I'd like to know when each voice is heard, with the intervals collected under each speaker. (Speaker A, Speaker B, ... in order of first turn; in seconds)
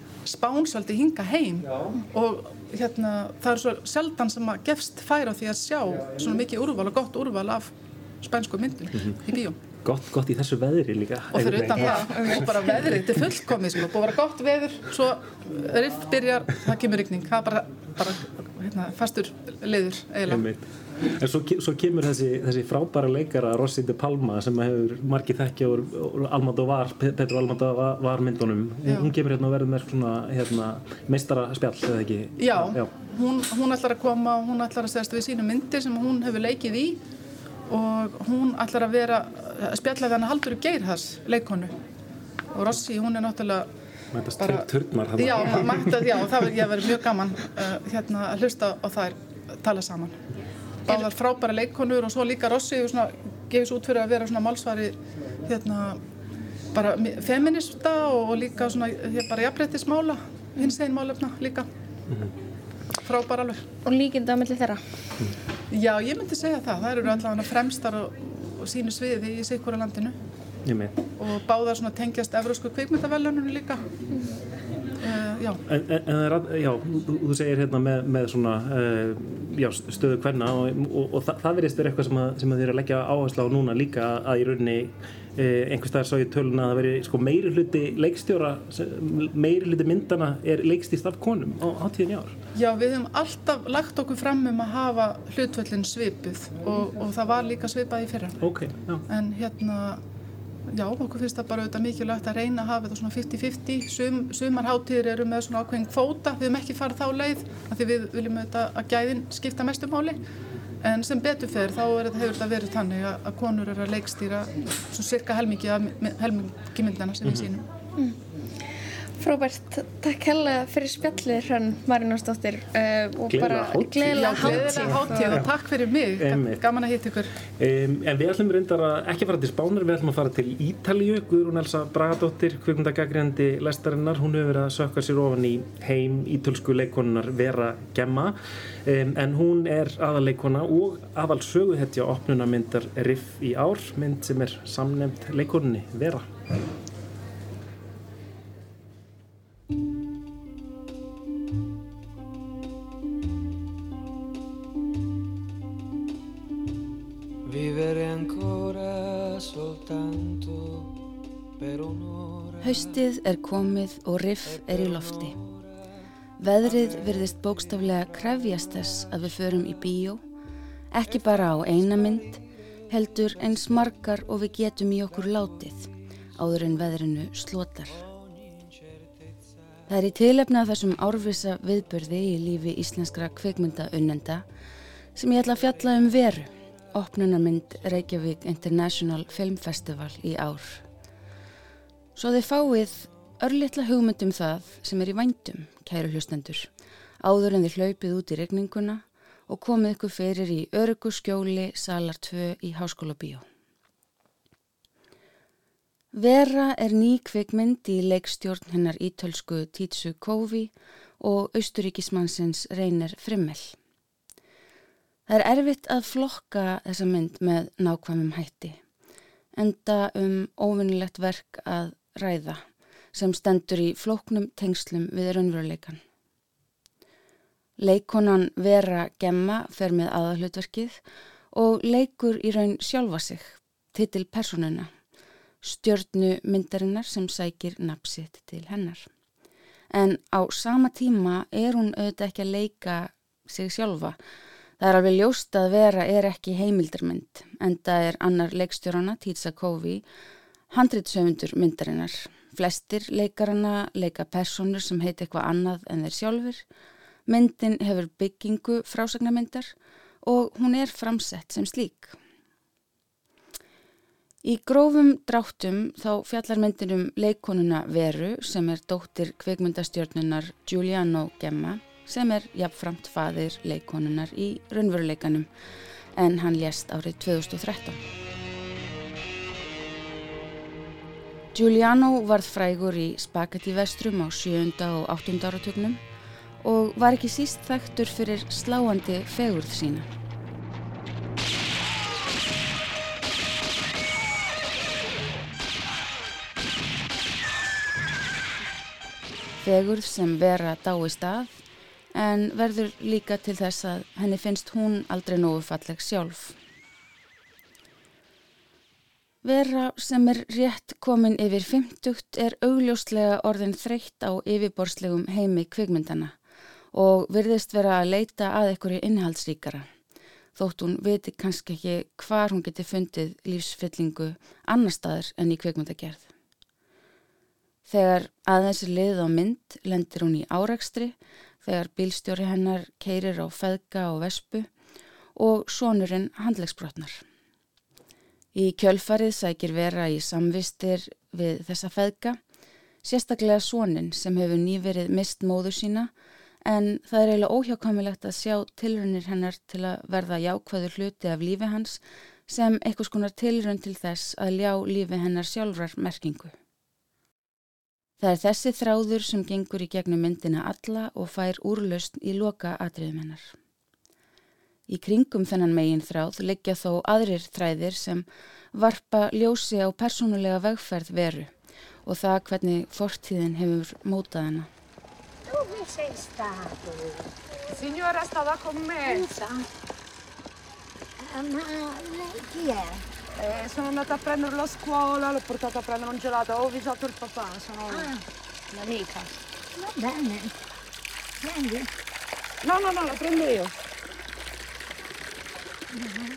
Speaker A: 0.2-9.6, 11.3-20.4, 32.4-37.0, 37.7-41.8, 42.5-43.7, 44.4-50.2, 50.9-56.0, 56.7-61.7, 63.0-63.6, 65.7-70.2, 71.2-73.8, 75.0-75.6, 92.5-98.4, 99.1-100.0, 100.7-110.2, 110.8-117.7, 124.1-127.3
Speaker B: 9.8-12.8, 20.3-32.9, 44.1-46.1, 70.7-71.0, 75.7-92.4, 98.4-99.0, 117.2-117.5, 123.3-125.5, 126.2-126.6, 127.6-146.3
Speaker C: 63.9-64.8, 119.2-125.4
Speaker D: 157.5-160.9, 161.6-162.6
Speaker E: 162.6-165.4, 166.4-170.2, 170.9-178.1, 179.9-184.4, 185.2-190.8, 192.2-196.7, 197.2-203.4, 206.1-213.8, 215.3-218.8, 219.6-226.0, 227.8-231.0, 231.5-234.9, 235.6-239.1, 239.9-244.2, 244.8-250.0, 250.7-256.6, 257.3-262.2, 264.4-275.5, 276.2-278.0, 281.5-286.0, 286.6-290.1, 299.6-301.6, 302.1-306.6, 309.4-316.3, 316.9-319.9, 320.6-326.3, 327.9-334.7, 335.4-337.2, 338.5-342.4, 343.0-346.1, 346.6-356.6, 358.2-363.6, 364.9-371.5, 372.1-374.7
Speaker F: 375.8-376.3, 379.1-379.6, 381.4-383.0, 389.8-390.5
Speaker G: 377.9-379.2, 383.5-388.0, 392.8-393.5